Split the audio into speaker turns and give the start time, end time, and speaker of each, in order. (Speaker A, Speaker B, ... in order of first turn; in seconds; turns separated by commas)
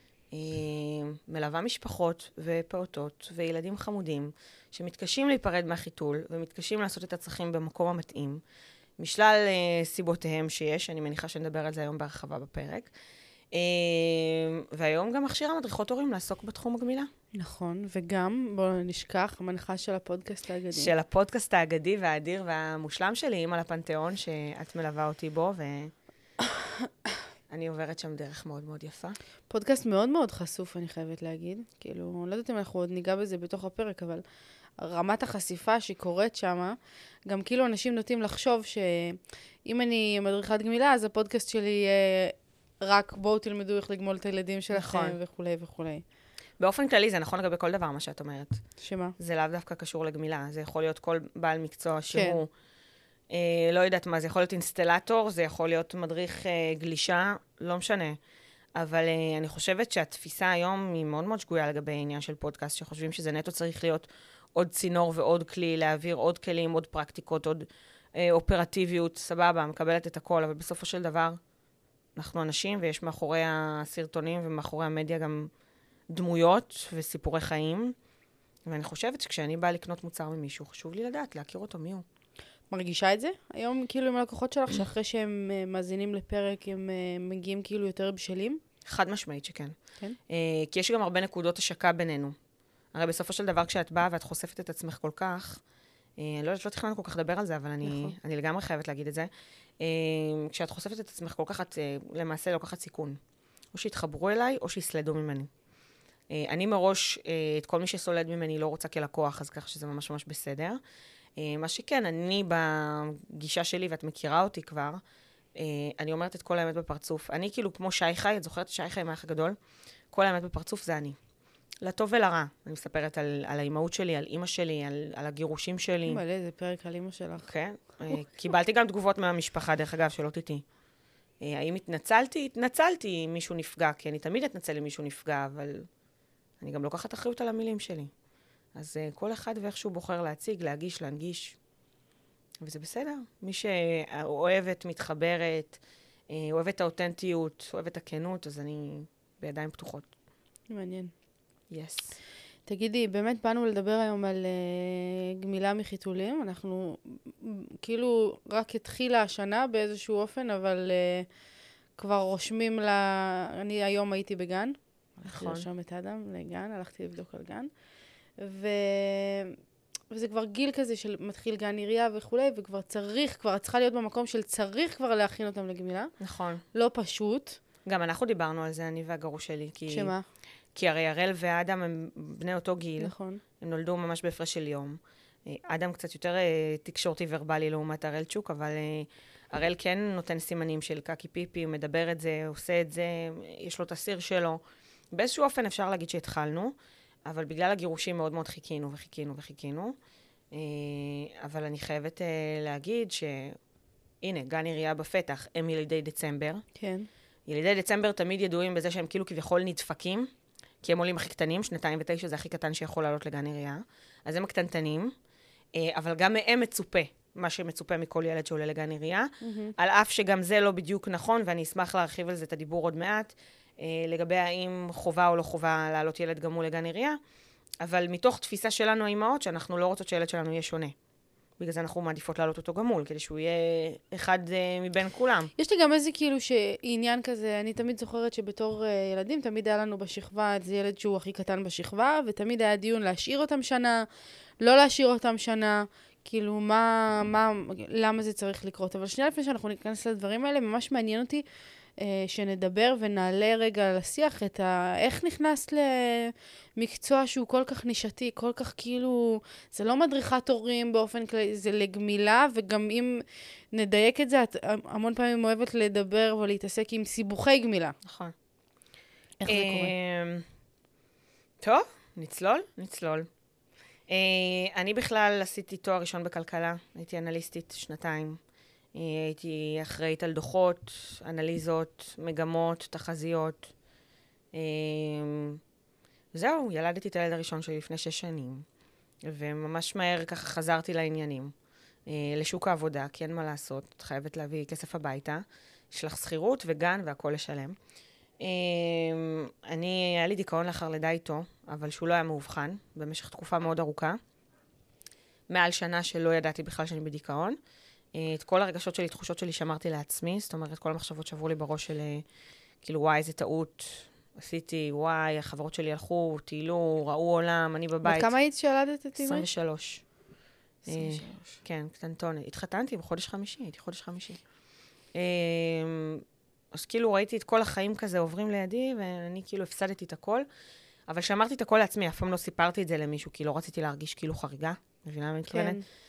Speaker A: 0.3-8.4, Speaker A: 9.0-12.9, Speaker A: 13.5-17.1, Speaker B: 17.4-20.9, Speaker A: 20.7-25.9, Speaker A: 27.5-29.2, Speaker B: 29.5-34.2, Speaker B: 34.8-46.0, Speaker A: 44.7-45.2, Speaker A: 46.6-48.6, Speaker B: 48.8-49.2, Speaker A: 49.2-52.5, Speaker B: 52.1-52.4, Speaker A: 53.3-58.2, Speaker A: 58.8-71.4, Speaker A: 72.2-75.5, Speaker A: 76.1-78.0, Speaker A: 78.7-82.0, Speaker B: 82.7-88.6, Speaker A: 88.8-89.8, Speaker A: 90.3-92.4, Speaker A: 92.9-95.6, Speaker A: 96.2-99.3, Speaker B: 97.8-98.2, Speaker A: 99.8-103.2, Speaker A: 103.7-105.5, Speaker A: 106.3-110.8, Speaker A: 111.4-115.0, Speaker A: 115.6-119.6, Speaker A: 120.1-121.2, Speaker A: 121.8-126.2, Speaker B: 126.1-127.5, Speaker A: 127.5-130.6, Speaker A: 131.4-135.9, Speaker A: 136.6-138.1, Speaker A: 138.8-141.6, Speaker A: 142.6-145.8, Speaker A: 146.3-150.1, Speaker B: 150.7-151.1, Speaker A: 151.7-152.2, Speaker B: 152.7-161.3, Speaker B: 162.0-167.7, Speaker A: 165.2-165.7, Speaker B: 168.4-169.6, Speaker B: 170.1-176.1, Speaker A: 176.2-176.6, Speaker B: 176.7-177.6, Speaker A: 177.8-180.1, Speaker B: 179.9-180.2, Speaker A: 180.8-194.6, Speaker B: 183.0-183.4, Speaker A: 195.1-196.7, Speaker A: 197.3-200.0, Speaker A: 200.5-203.6, Speaker A: 204.2-206.6, Speaker B: 206.8-207.1, Speaker A: 207.5-210.3, Speaker A: 210.8-215.1, Speaker A: 215.8-227.2, Speaker B: 219.4-219.7, Speaker A: 227.8-230.9, Speaker A: 231.6-235.5, Speaker B: 235.6-244.1, Speaker B: 244.6-251.4, Speaker B: 252.0-263.2, Speaker B: 263.7-268.0, Speaker A: 268.1-268.4, Speaker B: 269.4-269.9, Speaker A: 269.5-270.5, Speaker A: 271.6-273.3, Speaker A: 274.1-278.4, Speaker A: 278.9-283.7, Speaker A: 284.5-285.6, Speaker A: 286.3-288.7, Speaker A: 289.2-291.5, Speaker A: 292.1-297.8, Speaker A: 298.4-304.2, Speaker A: 305.5-307.6, Speaker A: 308.1-312.2, Speaker A: 312.8-318.3, Speaker B: 318.0-319.5, Speaker A: 319.2-320.0, Speaker B: 320.9-321.6, Speaker A: 320.9-324.4, Speaker A: 325.1-330.5, Speaker A: 331.1-335.8, Speaker B: 335.5-335.8